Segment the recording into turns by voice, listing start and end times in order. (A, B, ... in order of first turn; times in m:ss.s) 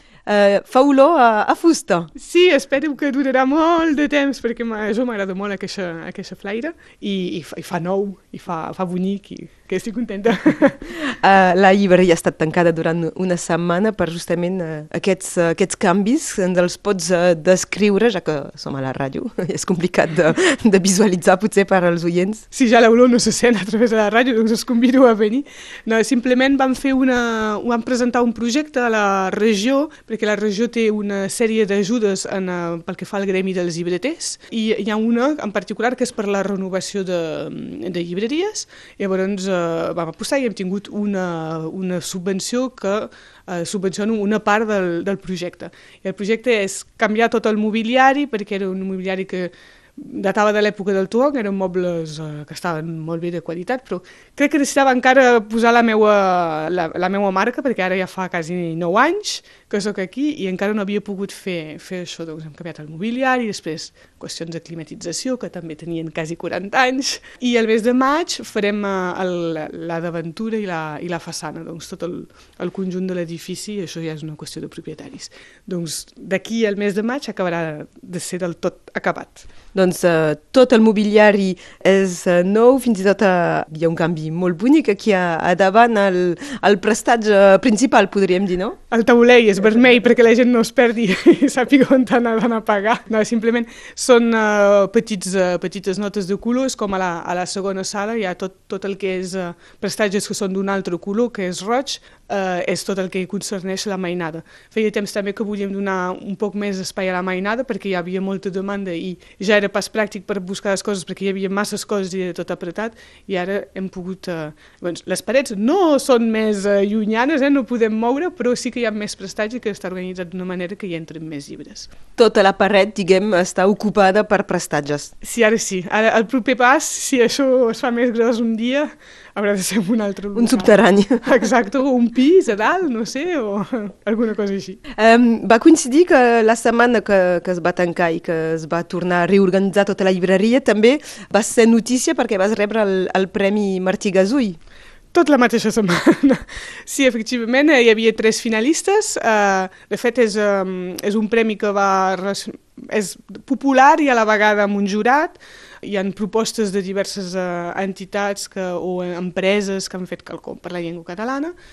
0:00.2-0:02.1 A
0:02.1-0:10.9 B
0:10.9-0:22.4 A
0:22.5-1:19.4 B
1:19.7-1:28.8 A
1:28.9-2:01.9 B
2:02.2-2:05.1 A
2:05.2-2:14.8 B
2:10.3-2:11.2 A
2:15.0-2:24.6 A
2:25.1-2:41.5 B